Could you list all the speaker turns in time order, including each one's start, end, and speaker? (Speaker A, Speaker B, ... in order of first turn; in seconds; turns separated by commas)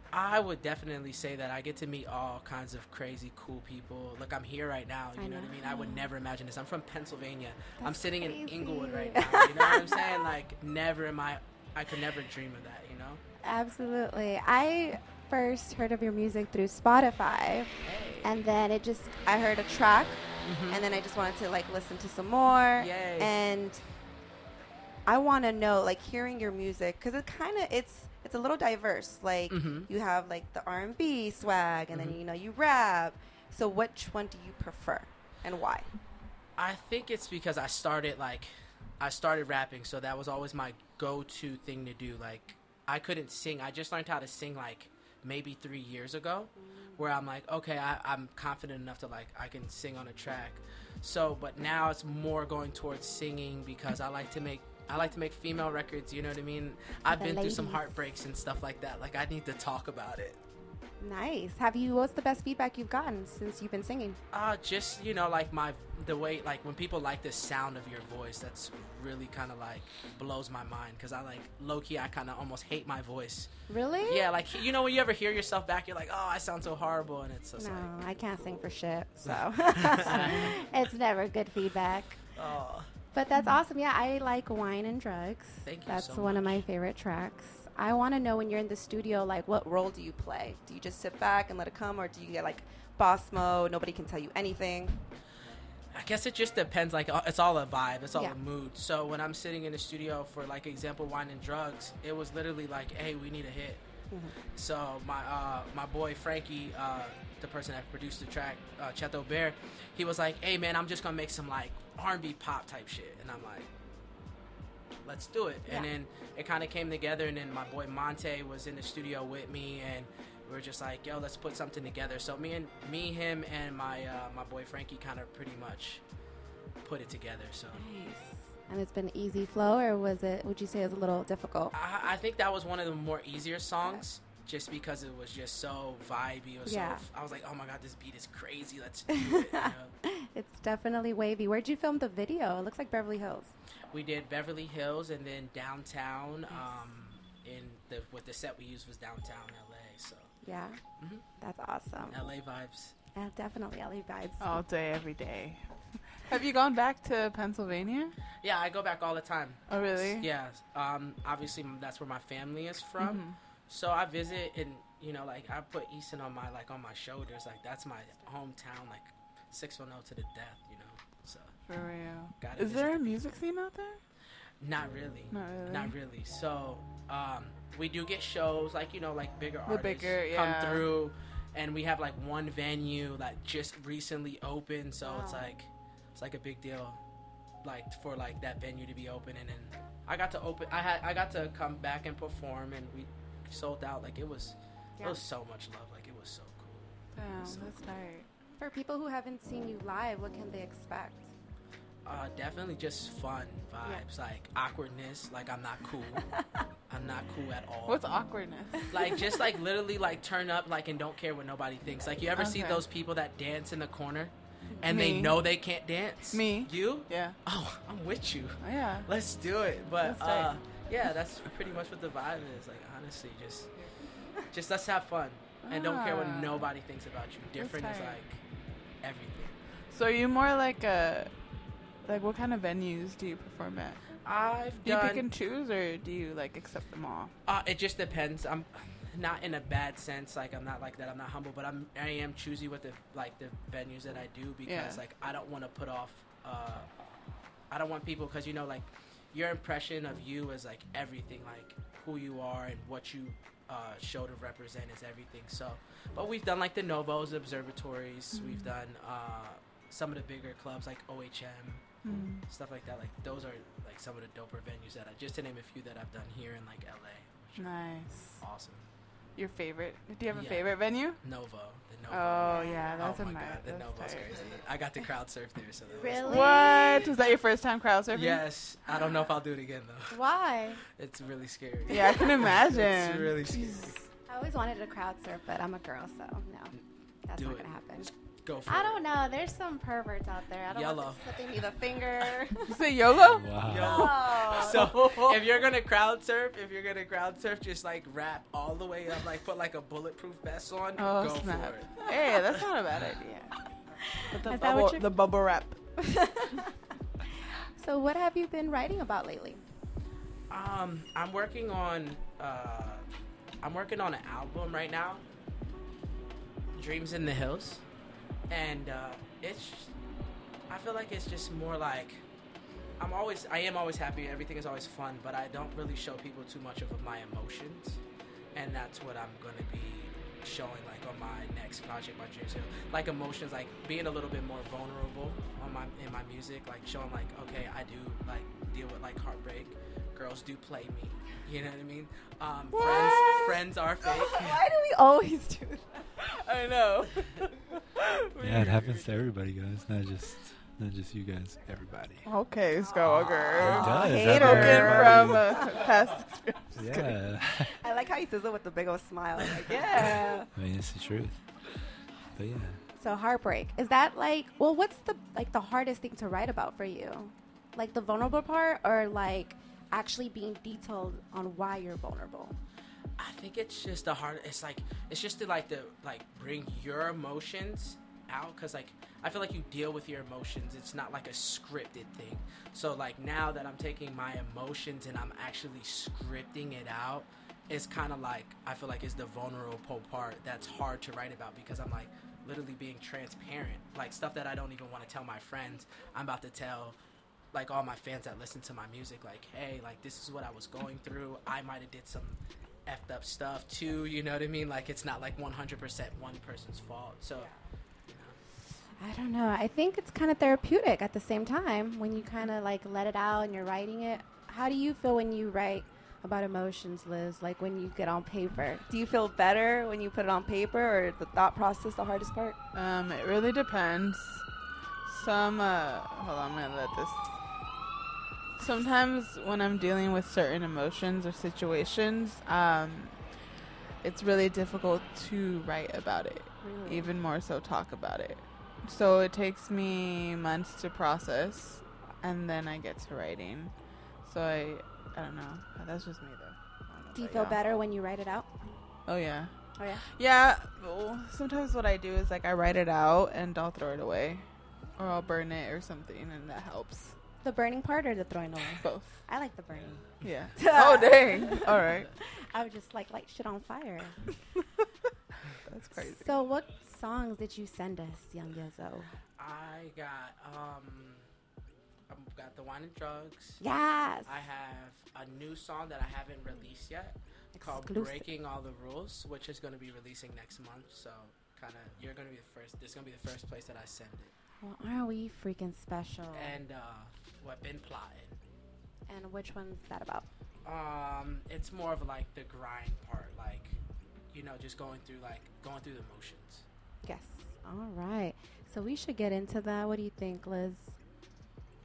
Speaker A: 0.1-13.2, Speaker B: 5.2-6.1, Speaker B: 7.8-10.2, Speaker B: 13.4-17.7, Speaker A: 17.8-18.3, Speaker B: 18.2-19.2, Speaker C: 19.2-23.8, Speaker A: 20.4-20.8, Speaker A: 22.8-23.3, Speaker C: 25.1-35.9, Speaker A: 29.5-29.9, Speaker A: 31.9-32.2, Speaker A: 36.6-60.4, Speaker B: 46.7-47.0, Speaker B: 57.1-57.9, Speaker B: 61.0-64.2, Speaker A: 64.3-73.5, Speaker B: 73.7-74.3, Speaker A: 74.1-77.9, Speaker B: 77.6-82.2, Speaker A: 79.2-80.5, Speaker D: 80.1-80.5, Speaker A: 82.3-82.9, Speaker B: 83.1-90.5, Speaker A: 85.6-86.6, Speaker C: 90.4-95.0, Speaker A: 95.9-103.8, Speaker A: 104.5-113.7, Speaker A: 115.0-126.0, Speaker A: 126.8-127.8, Speaker B: 127.7-131.7, Speaker A: 131.7-139.9, Speaker B: 136.7-137.0, Speaker B: 139.1-143.5, Speaker A: 143.9-150.3, Speaker B: 146.5-146.8, Speaker B: 150.4-150.8, Speaker A: 151.0-151.2, Speaker B: 151.4-152.2, Speaker A: 152.1-152.9, Speaker B: 153.1-154.6, Speaker D: 154.4-155.6, Speaker D: 156.2-158.1, Speaker A: 158.4-171.5, Speaker D: 159.7-160.3, Speaker D: 163.0-163.3, Speaker D: 171.7-174.0, Speaker A: 172.4-173.3, Speaker A: 174.6-187.0, Speaker D: 175.3-175.9, Speaker D: 179.7-180.9, Speaker B: 185.0-185.4, Speaker A: 187.6-197.7, Speaker D: 197.1-198.3, Speaker B: 198.6-201.3, Speaker A: 202.1-206.3, Speaker A: 206.9-208.0, Speaker D: 207.8-208.9, Speaker A: 208.9-223.7, Speaker D: 212.3-212.8, Speaker D: 214.8-215.4, Speaker D: 216.3-217.3, Speaker D: 218.6-219.1, Speaker D: 220.0-220.5, Speaker A: 224.5-228.4, Speaker D: 225.6-226.7, Speaker D: 227.6-228.2, Speaker A: 229.0-229.5, Speaker D: 229.9-231.3, Speaker D: 232.1-234.0, Speaker A: 234.2-235.3, Speaker D: 234.8-237.3, Speaker A: 237.4-246.9, Speaker D: 244.7-245.0, Speaker A: 247.7-261.8, Speaker D: 262.0-262.4, Speaker A: 262.5-267.7, Speaker D: 267.6-268.1, Speaker A: 268.4-268.9, Speaker D: 269.4-271.2, Speaker A: 270.3-276.9, Speaker D: 272.1-274.5, Speaker B: 272.4-273.0, Speaker B: 275.9-277.1, Speaker D: 276.2-278.4, Speaker A: 278.1-280.2, Speaker B: 280.1-280.8, Speaker A: 280.9-284.0, Speaker D: 281.9-283.9, Speaker B: 284.3-286.7, Speaker B: 287.2-288.1, Speaker A: 287.4-289.0, Speaker B: 288.7-292.8, Speaker A: 290.7-291.2, Speaker D: 292.7-295.4, Speaker E: 293.3-294.1, Speaker A: 293.6-302.1, Speaker C: 293.8-294.9, Speaker B: 293.8-294.6, Speaker D: 301.0-303.6, Speaker B: 304.1-305.1, Speaker D: 304.3-305.8, Speaker B: 306.0-306.7, Speaker B: 307.8-309.6, Speaker A: 310.5-313.0, Speaker A: 313.6-315.2, Speaker A: 316.7-317.8, Speaker A: 318.5-319.9, Speaker A: 320.7-322.2, Speaker A: 323.0-328.0, Speaker A: 328.6-344.6, Speaker C: 342.8-343.6, Speaker C: 344.1-345.7, Speaker B: 344.5-345.8, Speaker D: 346.2-349.1, Speaker E: 348.4-352.3, Speaker D: 352.2-357.1, Speaker E: 353.5-355.7, Speaker C: 353.6-355.8, Speaker B: 354.0-354.4, Speaker E: 356.8-357.8, Speaker C: 357.7-360.4, Speaker B: 359.7-360.4, Speaker E: 360.5-361.4, Speaker E: 362.4-362.8, Speaker B: 363.0-372.6, Speaker A: 373.2-397.0, Speaker A: 397.5-407.5, Speaker A: 408.1-408.4, Speaker B: 409.0-418.9, Speaker C: 418.9-422.6, Speaker D: 422.7-424.4, Speaker D: 425.1-427.3, Speaker D: 428.6-433.2, Speaker D: 434.0-443.7, Speaker B: 436.6-437.1, Speaker D: 444.2-447.6, Speaker B: 447.1-448.5, Speaker D: 449.1-449.5, Speaker B: 449.8-450.1, Speaker D: 450.1-454.4, Speaker D: 455.0-457.2, Speaker B: 457.4-464.2, Speaker D: 458.8-459.1, Speaker D: 460.2-462.1, Speaker D: 465.6-466.4, Speaker B: 466.1-469.1, Speaker A: 469.4-471.2, Speaker A: 472.1-473.6, Speaker B: 473.6-474.4, Speaker A: 474.2-484.3, Speaker B: 477.6-478.2, Speaker B: 484.6-486.6, Speaker A: 486.3-488.4, Speaker B: 489.1-490.3, Speaker A: 490.6-493.8, Speaker A: 494.3-496.7, Speaker B: 497.1-501.0